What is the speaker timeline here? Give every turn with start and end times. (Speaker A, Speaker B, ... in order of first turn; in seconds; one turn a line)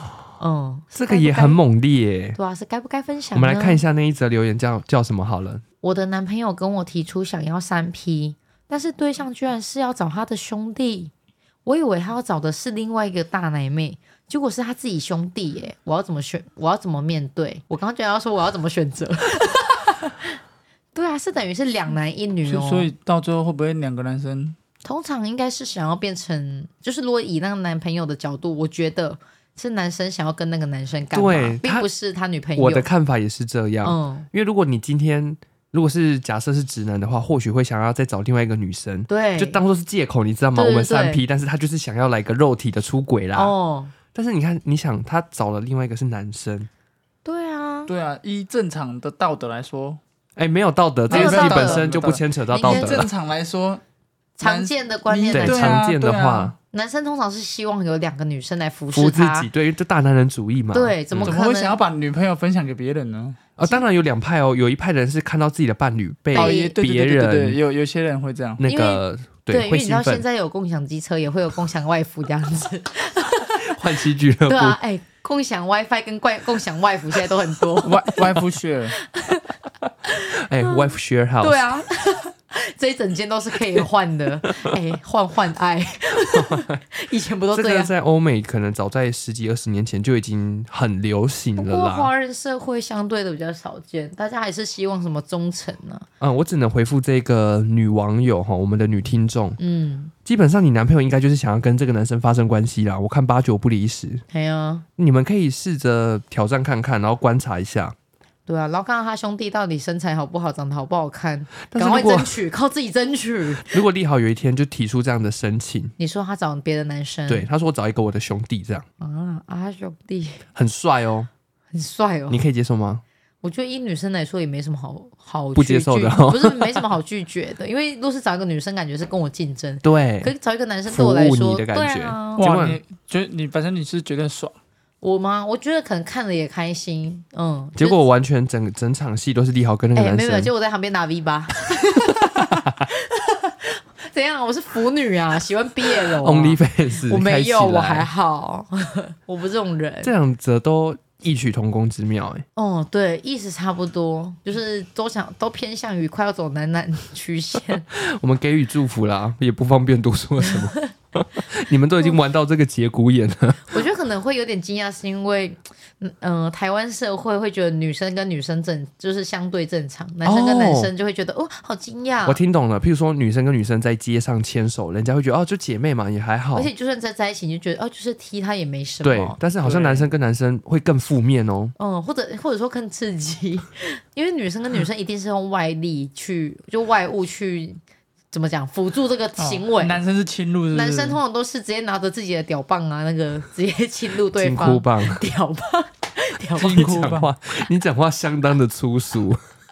Speaker A: 0.4-1.6
Speaker B: 0.9-2.4
Speaker A: 2.3-3.8
Speaker B: 3.3-5.6
Speaker A: 5.8-11.1
Speaker A: 11.6-20.4
Speaker A: 20.9-22.9
Speaker C: 22.4-24.6
Speaker A: 24.8-32.9
Speaker B: 31.1-31.9
Speaker B: 32.5-43.5
Speaker A: 33.8-34.3
Speaker A: 39.1-39.6
Speaker A: 40.5-41.2
Speaker A: 43.3-43.9
Speaker B: 44.1-46.7
Speaker A: 47.2-47.9
Speaker C: 47.9-50.0
Speaker B: 50.4-53.1
Speaker A: 51.1-52.0
Speaker C: 51.1-53.8
Speaker A: 52.5-53.1
Speaker A: 54.4-55.8
Speaker C: 54.4-56.5
Speaker B: 55.3-56.5
Speaker A: 56.7-59.5
Speaker B: 58.9-61.4
Speaker A: 60.7-61.8
Speaker C: 61.2-63.4
Speaker B: 63.6-67.6
Speaker C: 66.3-68.6
Speaker A: 66.3-66.8
Speaker B: 68.6-70.2
Speaker A: 68.6-73.8
Speaker B: 73.6-74.8
Speaker A: 74.5-78.2
Speaker C: 77.8-79.0
Speaker A: 79.1-79.6
Speaker A: 80.1-80.8
Speaker B: 80.3-81.6
Speaker A: 81.4-87.9
Speaker B: 86.3-86.8
Speaker B: 87.5-92.1
Speaker A: 91.6-96.0
Speaker B: 96.2-99.6
Speaker A: 99.6-100.1
Speaker B: 100.2-104.2
Speaker A: 104.3-104.8
Speaker B: 105.0-107.9
Speaker A: 108.5-113.8
Speaker B: 111.7-112.4
Speaker B: 113.6-115.9
Speaker A: 116.0-117.5
Speaker B: 117.3-118.8
Speaker A: 119.0-120.4
Speaker B: 120.5-121.3
Speaker A: 121.7-122.4
Speaker B: 122.3-123.0
Speaker A: 123.4-132.4
Speaker B: 125.5-126.8
Speaker B: 129.8-130.3
Speaker B: 130.9-132.8
Speaker C: 132.4-134.6
Speaker A: 135.0-138.0
Speaker B: 137.8-140.5
Speaker A: 139.9-150.1
Speaker B: 142.2-142.9
Speaker B: 146.0-148.1
Speaker B: 150.0-152.4
Speaker A: 152.6-157.8
Speaker B: 157.9-163.8
Speaker A: 160.4-160.9
Speaker A: 163.7-172.4
Speaker B: 170.2-170.9
Speaker B: 172.2-176.7
Speaker A: 176.5-179.4
Speaker B: 179.0-181.7
Speaker C: 179.6-180.1
Speaker A: 181.8-187.8
Speaker A: 188.3-190.0
Speaker C: 189.4-191.2
Speaker A: 190.7-197.1
Speaker B: 194.4-195.2
Speaker C: 196.6-197.3
Speaker B: 196.7-199.4